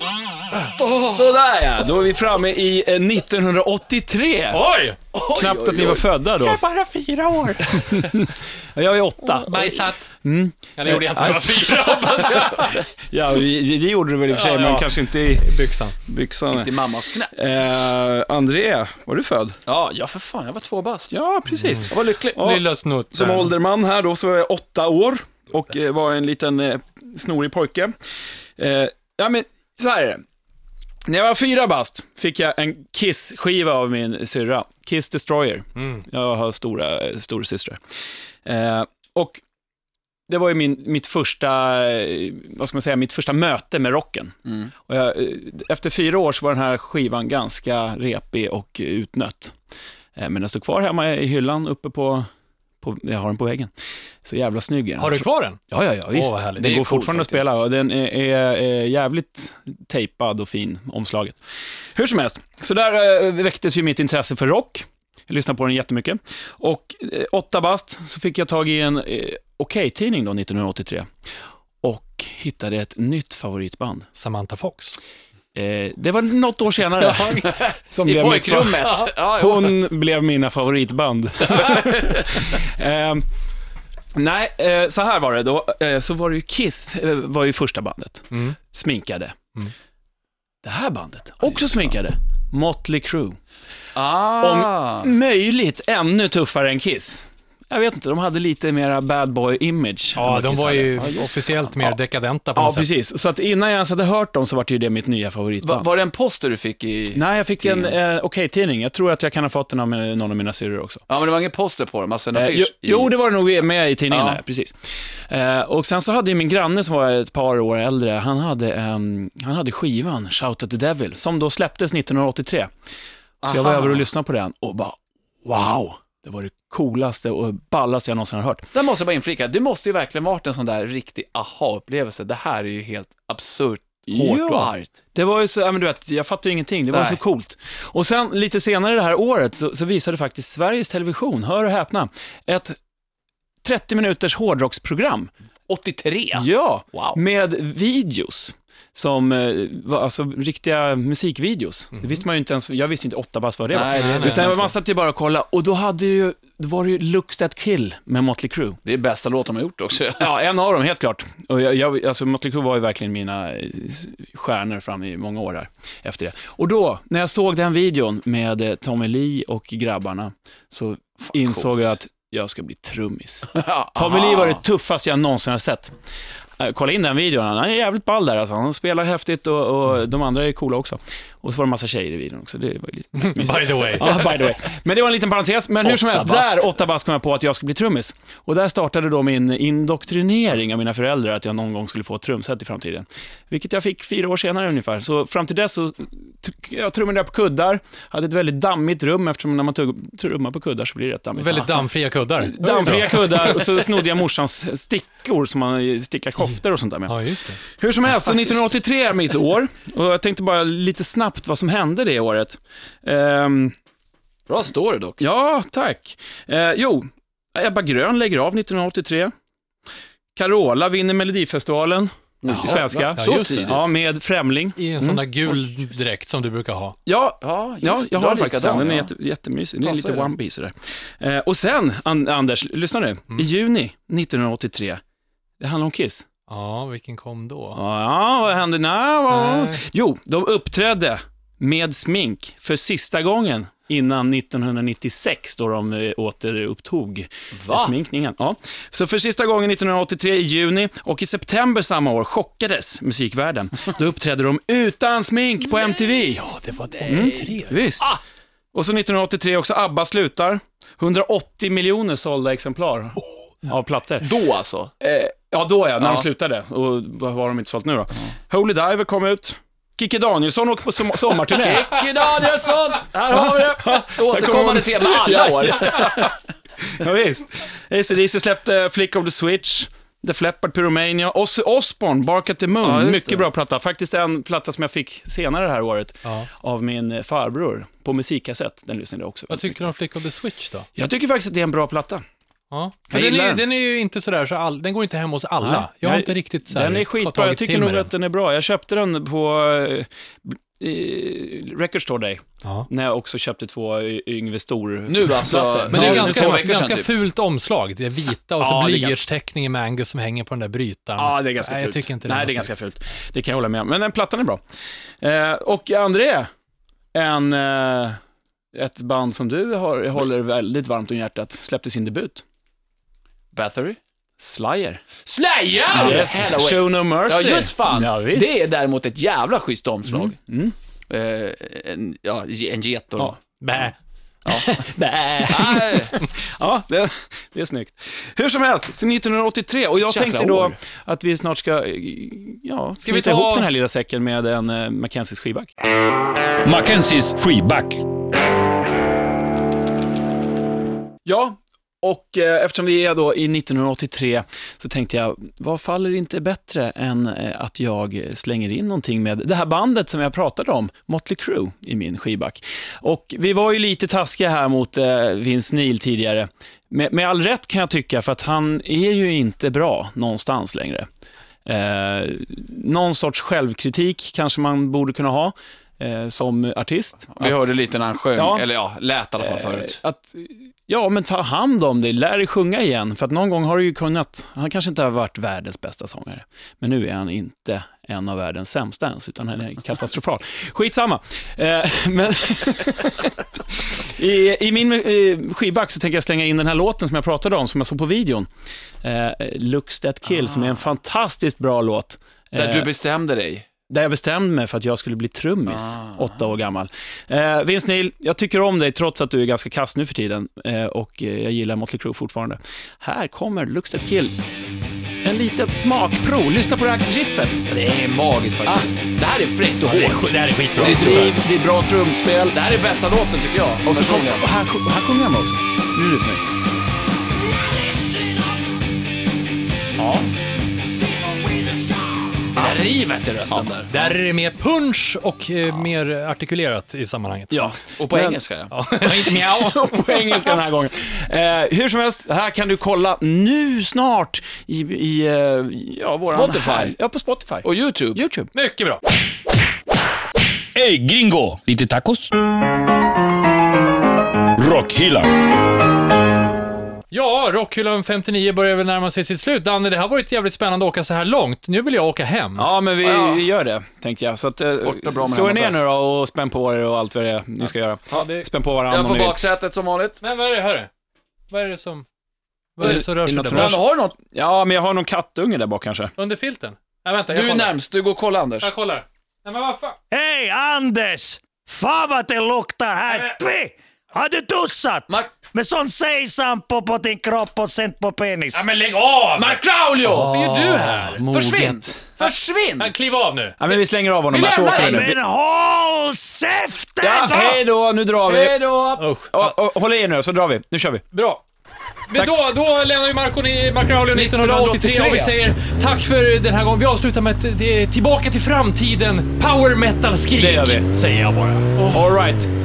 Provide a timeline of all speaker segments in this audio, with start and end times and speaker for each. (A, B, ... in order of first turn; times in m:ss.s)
0:00.8-0:01.3 A
0:00.9-0:04.6 B
0:04.5-0:05.0 C
0:05.1-0:06.9 A
0:05.3-0:06.6 B
0:06.8-0:08.0 C
0:07.7-0:15.5 B
0:09.3-0:10.1 C
0:10.8-0:12.8 C
0:14.3-0:16.0 C
0:16.1-0:19.6 B
0:16.5-0:17.3 A
0:19.7-0:21.2 A
0:21.1-0:28.0 B
0:21.6-0:23.5 C
0:21.9-0:22.5 A
0:28.6-0:30.2 B
0:31.0-0:37.8 B
0:35.8-0:36.0 C
0:38.4-0:39.4 B
0:40.3-0:49.6 B
0:44.4-0:44.7 A
0:50.2-0:52.3 B
0:52.8-0:53.7 B
0:54.2-1:01.4 B
0:55.0-0:55.6 C
0:56.1-0:56.7 C
0:56.6-0:57.5 A
1:01.9-1:11.1 B
1:11.8-1:14.0 B
1:14.1-1:15.0 C
1:15.5-1:23.2 B
1:17.0-1:17.6 C
1:17.4-1:19.8 A
1:21.6-1:22.5 A
1:24.1-1:29.4 B
1:30.6-1:33.4 B
1:33.9-1:35.1 A
1:34.4-1:41.9 B
1:40.2-1:42.9 C
1:42.5-1:45.8 B
1:45.6-1:48.0 A
1:47.1-1:51.0 B
1:51.1-1:53.1 A
1:52.3-2:02.7 B
1:54.1-1:54.4 A
2:03.4-2:04.0 A
2:03.4-2:08.7 B
2:08.7-2:14.9 A
2:14.1-2:22.8 B
2:16.9-2:17.2 A
2:23.6-2:25.3 B
2:25.7-2:27.2 A
2:26.3-2:38.8 B
2:33.7-2:34.7 A
2:33.8-2:34.6 C
2:38.8-2:40.3 A
2:40.2-2:56.0 B
2:51.3-2:51.9 A
2:53.5-2:54.6 A
2:56.6-3:21.8 B
3:03.2-3:04.3 C
3:05.8-3:06.7 A
3:21.4-3:24.0 C
3:22.4-3:33.8 B
3:27.1-3:27.6 C
3:34.5-3:35.2 A
3:35.2-3:39.3 B
3:40.3-3:45.2 B
3:42.4-3:43.8 A
3:42.5-3:43.8 C
3:44.8-3:47.0 C
3:47.0-3:55.0 B
3:47.4-3:49.1 A
3:49.8-3:50.3 A
3:55.6-3:56.2 B
3:56.5-3:57.8 C
3:57.7-4:16.4 B
3:59.3-3:59.8 C
4:07.6-4:07.9 A
4:16.3-4:17.9 C
4:16.9-4:18.2 A
4:17.1-4:18.1 B
4:18.7-4:24.3 B
4:24.2-4:24.9 A
4:25.0-4:32.0 B
4:26.0-4:26.2 A
4:31.5-4:36.4 A
4:33.3-4:36.3 B
4:36.8-4:49.9 B
4:42.8-4:43.5 A
4:49.5-4:50.9 C
4:50.9-4:52.2 B
4:52.7-4:58.1 C
4:53.1-4:53.6 B
4:55.6-5:06.7 B
5:05.1-5:07.1 A
5:05.9-5:12.7 C
5:08.6-5:09.2 B
5:11.2-5:14.6 B
5:15.2-5:16.5 B
5:17.1-5:18.2 B
5:18.7-5:22.4 B
5:23.5-5:24.0 A
5:24.4-5:25.1 B
5:25.1-5:30.4 A
5:25.9-5:28.6 B
5:30.0-5:30.7 B
5:31.1-5:33.3 A
5:33.2-5:33.8 B
5:33.6-5:33.9 C
5:34.4-5:34.8 A
5:34.5-5:45.7 B
5:35.4-5:36.2 A
5:40.0-5:40.8 A
5:43.0-5:43.7 C
5:46.6-5:48.0 D
5:51.2-6:11.1 B
6:11.6-6:17.7 B
6:17.4-6:20.0 A
6:18.4-6:18.7 B
6:19.4-6:38.5 B
6:39.0-6:42.9 B
6:40.5-6:40.8 A
6:42.5-6:43.7 A
6:43.9-6:54.4 B
6:45.7-6:46.3 A
6:55.2-6:57.6 B
6:57.7-7:01.5 A
6:59.8-7:01.4 C
7:00.7-7:02.5 B
7:02.4-7:04.4 A
7:03.8-7:06.4 B
7:10.0-7:10.2 A
7:12.5-7:14.0 A
7:13.9-7:17.8 C
7:17.5-7:18.4 B
7:18.0-7:18.7 A
7:18.7-7:20.4 C
7:18.9-7:28.5 B
7:26.3-7:26.9 A
7:27.6-7:28.2 A
7:28.5-7:29.0 C
7:30.7-7:32.3 D
7:34.6-7:35.4 D
7:37.1-7:42.7 C
7:42.6-7:49.4 B
7:43.0-7:43.5 A
7:44.8-7:45.9 A
7:48.1-7:48.5 C
7:48.9-7:50.2 A
7:50.2-7:50.9 C
7:51.5-7:52.0 C
7:52.8-7:53.8 C
7:52.8-7:56.1 B
7:52.8-7:54.2 A
7:56.2-7:57.8 C
7:57.3-7:58.7 A
7:58.6-8:00.0 C
8:00.1-8:08.7 E
8:03.0-8:03.4 C
8:05.1-8:05.4 A
8:08.5-8:11.2 C
8:09.4-8:12.9 A
8:10.0-8:12.1 B
8:12.2-8:13.6 C
8:13.6-8:15.2 B
8:14.3-8:15.1 A
8:14.4-8:17.5 E
8:17.0-8:18.6 B
8:17.2-8:17.6 A
8:18.2-8:19.0 A
8:19.0-8:19.5 C
8:19.3-8:21.0 B
8:21.1-8:21.4 C
8:22.1-8:31.7 C
8:24.1-8:25.4 A
8:30.4-8:30.9 B
8:31.8-8:32.0 A
8:31.9-8:32.5 B